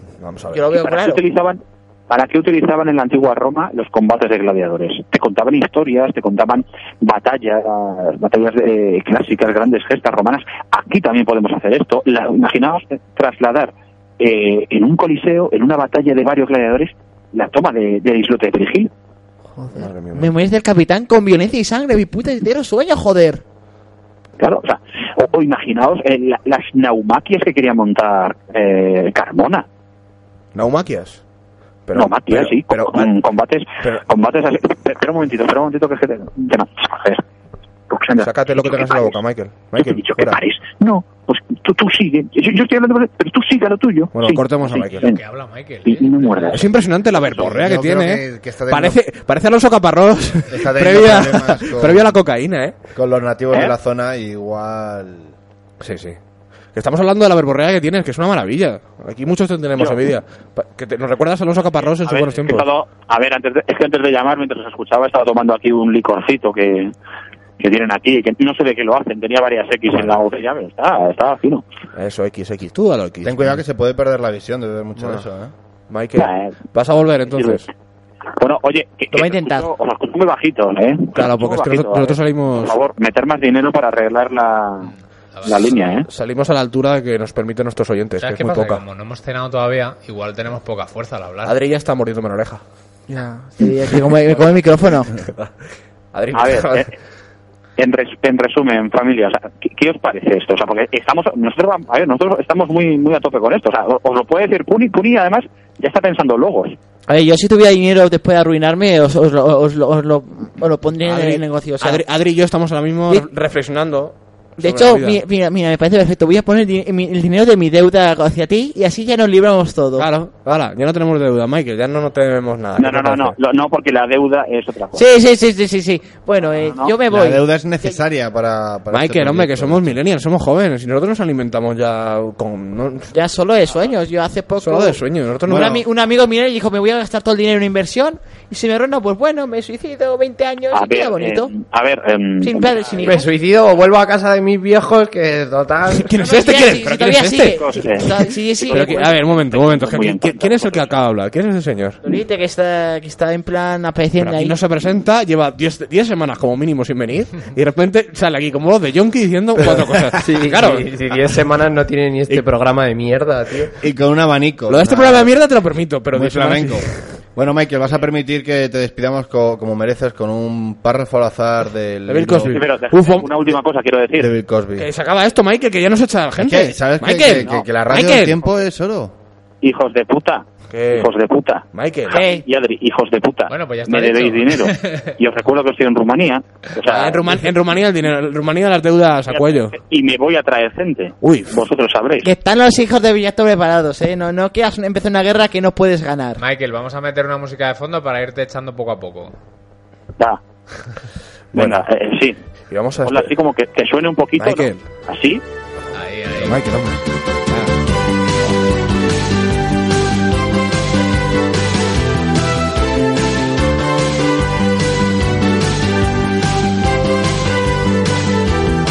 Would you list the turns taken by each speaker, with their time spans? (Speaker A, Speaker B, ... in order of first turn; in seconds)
Speaker A: 0.2-0.6, 19.8-20.3, 30.5-31.2, 31.9-33.1, 38.2-40.4, 44.1-45.1, 46.5-52.8, 55.8-56.2, 56.7-62.7, 69.9-70.2, 72.0-73.6, 75.0-75.3, 75.9-77.7, 81.1-82.8, 86.1-88.8, 91.4-92.6, 94.3-95.5, 96.1-96.9, 111.0-115.2, 120.0-123.4, 128.9-133.1, 134.6-135.8, 145.9-152.0, 154.2-160.9, 164.7-167.1, 172.1-173.4, 174.8-178.4, 180.7-181.1, 181.7-182.2, 186.8-189.8, 191.2-191.7, 201.6-201.8, 202.7-203.3, 204.4-204.8, 206.4-207.8
Speaker B: 0.5-1.2, 19.5-23.4, 79.1-79.7, 93.1-95.1, 107.1-112.0, 114.6-120.1, 124.9-128.0, 133.1-141.5, 142.4-143.2, 146.2-149.2, 152.0-154.6, 182.1-182.4, 192.2-196.4
Speaker C: 0.7-18.9, 24.4-29.7, 31.9-37.2, 37.9-39.2, 39.8-45.2, 45.8-47.5, 59.8-60.1, 61.9-66.9, 67.6-71.6, 76.2-76.6, 77.3-77.7, 78.4-84.9, 85.4-86.1, 96.3-97.0, 97.8-106.8, 122.8-125.1, 126.6-127.0, 140.7-143.3, 147.6-150.9, 172.5-174.3, 179.6-187.4, 189.3-192.3, 201.5-202.4, 203.0-205.4
Speaker D: 45.0-46.6, 85.3-85.8, 88.2-91.5, 183.5-185.1, 196.4-199.3, 205.9-206.6
Speaker E: 47.4-49.0, 50.5-52.1, 52.9-55.4, 73.2-75.5, 127.1-130.0, 135.5-135.8, 163.8-165.3, 166.1-172.6, 174.2-174.9, 176.4-179.1
Speaker F: 143.1-146.2, 160.2-163.7